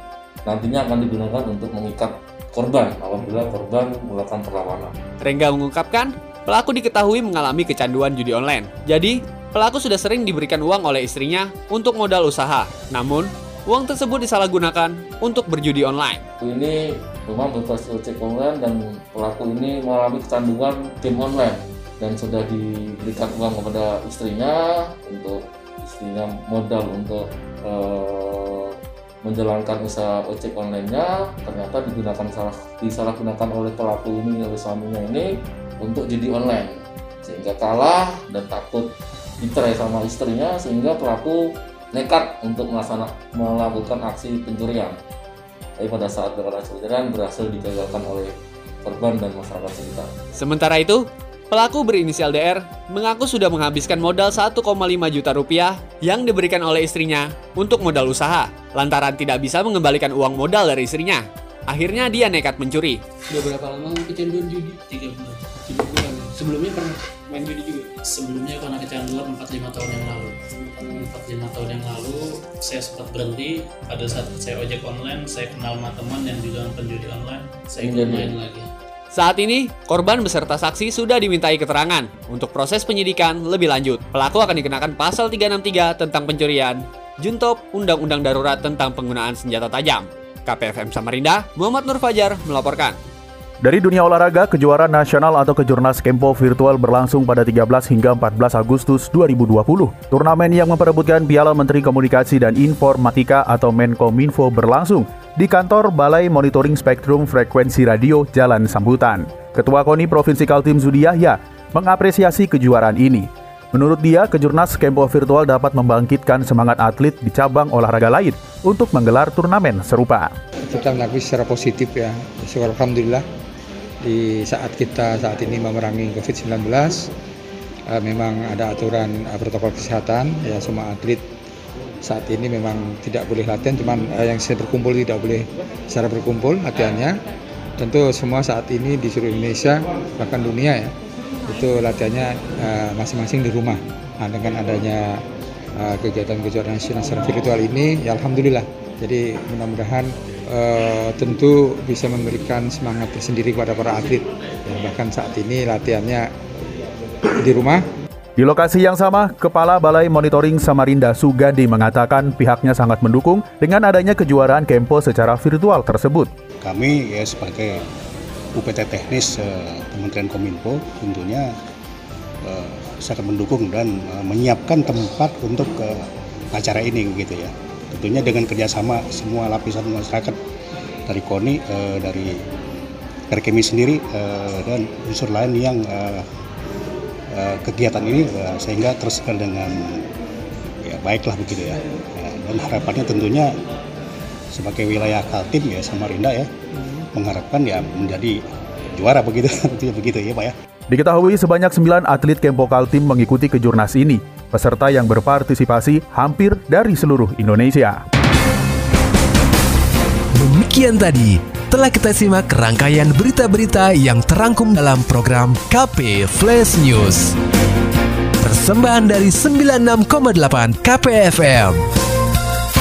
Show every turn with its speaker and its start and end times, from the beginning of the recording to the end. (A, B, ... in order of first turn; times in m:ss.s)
0:00.4-0:04.9 A
0:05.2-0:16.2 B
0:16.4-0:35.3 A
0:35.8-0:36.7 A
0:37.2-0:38.9 A
0:39.4-0:41.4 A
0:41.9-0:45.0 A
0:45.8-0:48.3 A
0:48.8-0:50.1 A
0:50.4-1:03.0 B
1:03.3-1:18.7 C
1:17.9-1:18.3 A
1:19.1-1:33.0 B
1:33.6-2:00.3 D
2:00.7-2:03.2 E
2:04.0-2:07.1 E
2:07.9-2:11.2 E
2:12.0-2:17.1 E
2:17.8-2:20.9 E
2:21.5-2:25.2 E
2:25.8-2:36.3 E
2:37.4-2:37.8 E
2:38.4-2:46.3 D
2:46.6-2:47.8 F
2:48.6-2:51.4 F
2:52.4-3:00.4 F
3:01.1-3:02.3 F
3:03.3-3:06.2 F
3:07.3-3:10.0 F
3:10.8-3:13.5 F
3:14.5-3:18.4 F
3:18.9-3:20.5 F
3:20.9-3:28.0 D
3:30.3-3:37.4 G
3:38.4-3:41.9 G